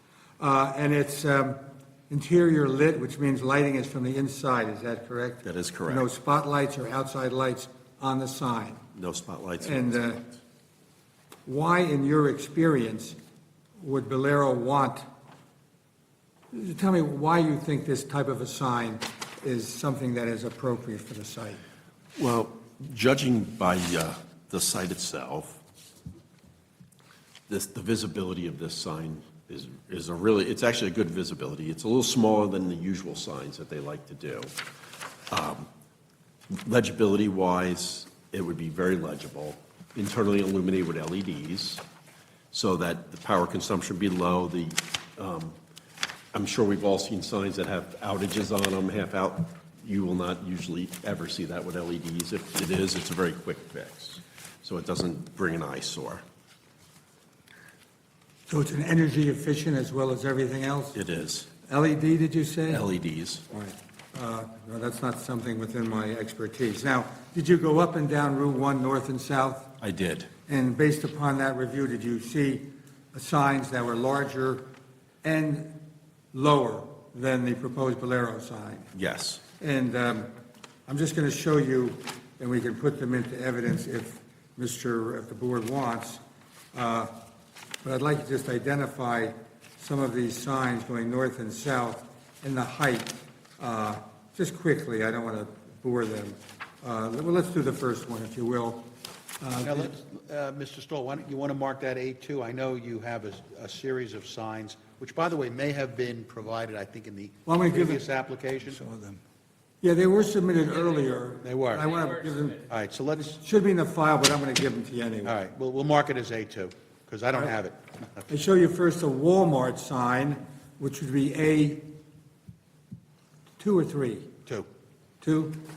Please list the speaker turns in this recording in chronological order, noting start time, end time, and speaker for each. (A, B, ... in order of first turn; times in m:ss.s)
0:00.4-0:08.8 A
0:05.4-0:06.1 B
0:08.9-0:10.1 B
0:09.6-0:10.2 A
0:11.4-0:13.2 A
0:13.8-0:15.0 A
0:16.5-0:21.6 A
0:22.2-0:25.6 B
0:27.5-0:34.5 B
0:35.3-0:35.7 B
0:36.5-0:41.8 B
0:42.5-0:45.6 B
0:46.3-0:56.2 B
0:58.5-1:01.0 A
1:00.9-1:01.5 B
1:01.6-1:02.8 A
1:02.7-1:03.4 B
1:03.5-1:09.7 A
1:09.8-1:10.3 B
1:10.5-1:14.7 A
1:15.2-1:15.7 A
1:16.3-1:18.9 A
1:18.9-1:19.4 B
1:19.6-1:20.3 A
1:20.9-1:26.2 A
1:26.7-1:27.1 A
1:27.8-1:38.8 A
1:39.4-1:39.9 A
1:39.6-1:48.8 C
1:47.4-1:48.0 A
1:49.8-1:52.6 A
1:51.4-1:51.9 C
1:52.7-1:53.4 C
1:53.2-1:55.4 A
1:55.2-1:58.3 C
1:58.3-2:01.9 A
2:03.6-2:04.3 A
2:05.2-2:05.6 A